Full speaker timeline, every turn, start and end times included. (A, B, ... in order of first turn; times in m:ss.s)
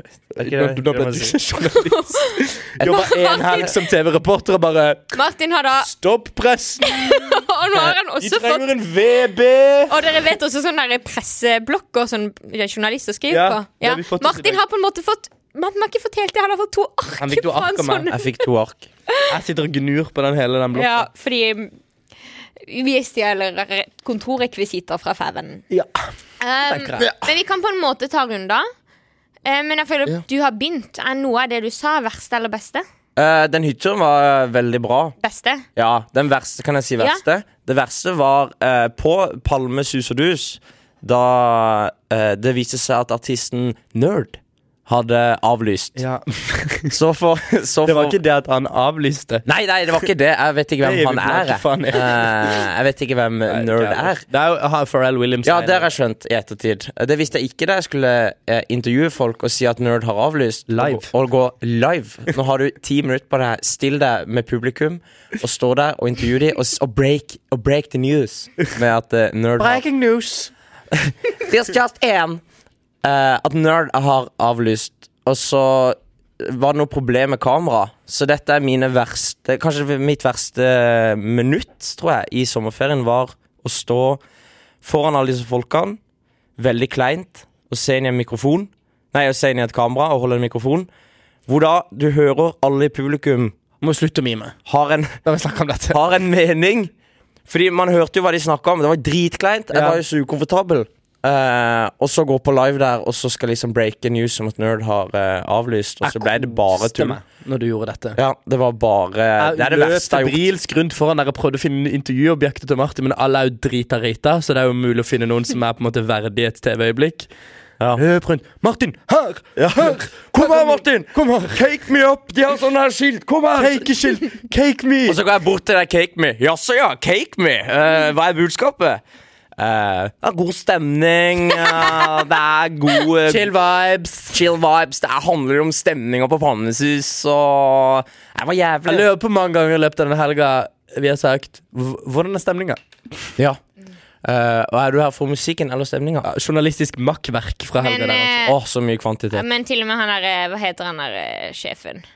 0:00.3-0:05.2 A
0:00.4-0:01.4 B
0:01.6-0:03.8 C
0:05.1-0:05.9 C
0:05.8-0:10.0 A
0:06.8-0:08.7 C
0:09.9-0:18.4 C
0:13.3-0:14.6 A
0:17.2-0:18.1 A
0:18.1-0:18.9 B
0:19.3-0:21.1 A
0:20.7-0:21.7 C
0:22.6-0:25.6 C
0:26.4-0:28.7 C
0:26.7-0:27.1 A
0:27.0-0:27.3 B
0:29.4-0:32.8 C
0:33.2-0:35.1 B
0:35.2-0:35.6 C
0:35.8-0:46.0 B
0:46.0-0:46.9 A
0:46.9-0:48.2 B
0:47.8-0:49.4 A
0:49.4-0:54.2 B
0:50.8-0:52.7 A
0:53.5-0:55.8 A
0:55.4-1:09.8 B
1:00.7-1:01.1 A
1:09.6-1:10.5 A
1:11.0-1:12.4 B
1:13.0-1:24.2 B
1:24.8-1:26.0 B
1:26.6-1:30.9 B
1:31.5-1:33.6 B
1:33.8-1:34.5 A
1:34.6-1:35.2 B
1:35.2-1:36.0 A
1:35.9-1:36.9 B
1:37.5-1:47.2 B
1:39.7-1:40.0 A
1:46.0-1:48.2 A
1:48.2-1:50.4 B
1:49.4-1:57.3 A
1:57.9-2:01.4 A
1:59.6-2:03.9 B
2:03.6-2:05.2 A
2:05.1-2:09.0 B
2:09.6-2:13.5 B
2:13.3-2:14.4 A
2:14.3-2:19.0 B
2:18.8-2:23.3 A
2:24.2-2:26.3 B
2:26.2-2:28.4 A
2:27.8-2:28.6 C
2:28.4-2:29.4 B
2:29.3-2:32.0 C